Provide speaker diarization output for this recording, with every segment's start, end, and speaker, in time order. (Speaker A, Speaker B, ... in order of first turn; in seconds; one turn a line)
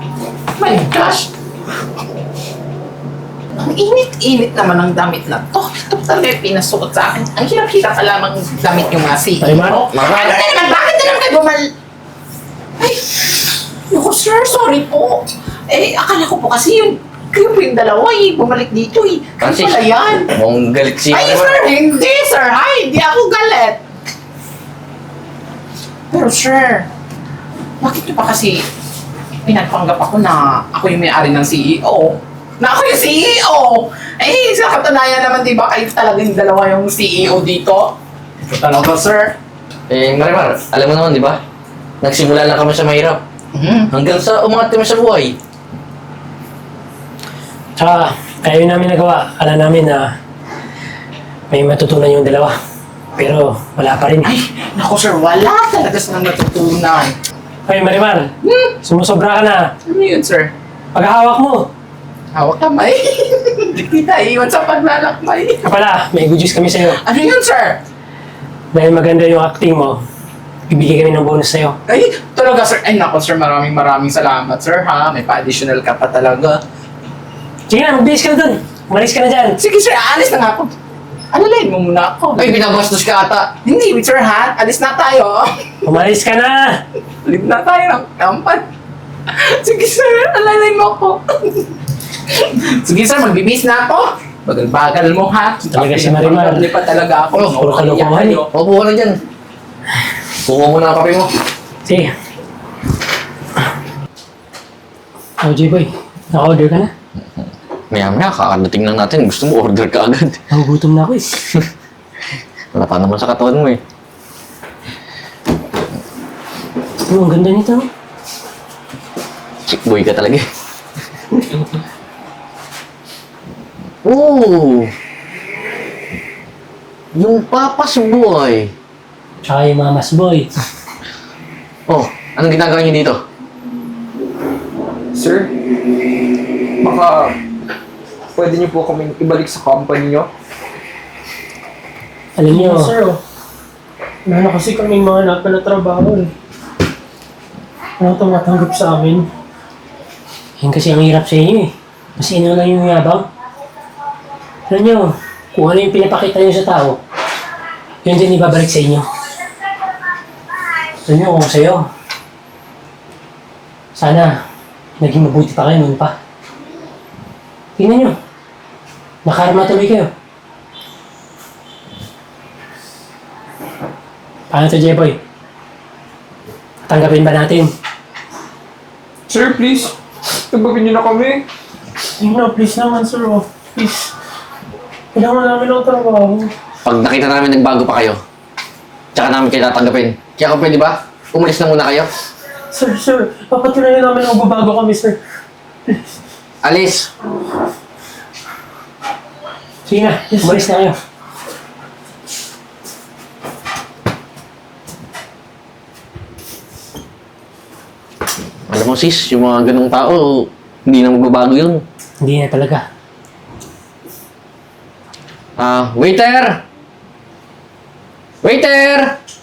Speaker A: 0.6-1.3
Speaker A: 3.6-11.7
Speaker B: 9.4-9.8
Speaker C: 9.9-10.4
Speaker A: 12.8-20.3
Speaker C: 19.4-19.8
Speaker C: 20.3-21.7
Speaker A: 21.1-23.8
Speaker A: 26.1-26.9
Speaker A: 27.8-28.6
Speaker A: 29.4-38.0
Speaker A: 38.5-39.4
Speaker C: 39.9-41.4
Speaker C: 42.0-43.2
Speaker A: 43.5-43.9
Speaker C: 43.9-45.4
Speaker B: 47.8-50.0
Speaker B: 51.5-52.5
Speaker B: 53.2-54.3
Speaker A: 54.2-57.1
Speaker B: 57.6-59.7
Speaker A: 58.4-58.8
Speaker A: 59.8-60.5
Speaker B: 60.9-61.7
Speaker A: 62.3-65.7
Speaker B: 65.6-67.0
Speaker A: 66.9-67.8
Speaker B: 68.7-70.0
Speaker B: 70.7-71.8
Speaker A: 71.9-76.6
Speaker B: 77.7-79.6
Speaker A: 79.6-80.7
Speaker A: 81.3-82.5
Speaker C: 82.3-83.5
Speaker A: 83.6-85.7
Speaker B: 85.8-86.8
Speaker A: 87.2-88.7
Speaker A: 89.4-91.6
Speaker A: 92.6-95.7
Speaker B: 95.7-96.7
Speaker D: 95.7-98.5
Speaker A: 97.1-97.4
Speaker C: 97.3-97.6
Speaker B: 97.5-98.4
Speaker C: 98.5-99.1
Speaker C: 100.4-101.3
Speaker B: 101.8-102.1
Speaker B: 105.4-106.9
Speaker C: 107.9-110.4
Speaker B: 110.5-111.3
Speaker C: 112.7-113.8
Speaker B: 117.1-117.9
Speaker C: 119.7-120.4
Speaker C: 124.0-124.9
Speaker C: 127.1-128.7
Speaker B: 129.4-130.5
Speaker C: 131.9-133.2
Speaker D: 135.1-135.5
Speaker D: 136.8-137.4
Speaker D: 138.3-140.3
Speaker B: 142.4-142.9
Speaker E: 142.5-143.2
Speaker E: 144.2-146.3
Speaker E: 148.0-149.3
Speaker B: 150.6-153.3
Speaker B: 154.7-157.0
Speaker B: 158.0-159.0
Speaker B: 161.1-161.8
Speaker B: 163.9-164.4
Speaker B: 165.0-166.1
Speaker B: 167.8-168.2
Speaker B: 169.2-170.1
Speaker B: 174.5-175.2
Speaker B: 176.9-177.7
Speaker D: 179.3-181.4
Speaker E: 182.2-184.1
Speaker E: 185.1-186.5
Speaker C: 186.8-188.2
Speaker C: 189.1-192.1
Speaker E: 192.7-195.2
Speaker C: 196.6-197.1
Speaker B: 199.8-200.9
Speaker E: 200.3-200.6
Speaker C: 208.7-211.8
Speaker B: 212.2-212.9
Speaker C: 215.6-216.6
Speaker C: 218.4-219.2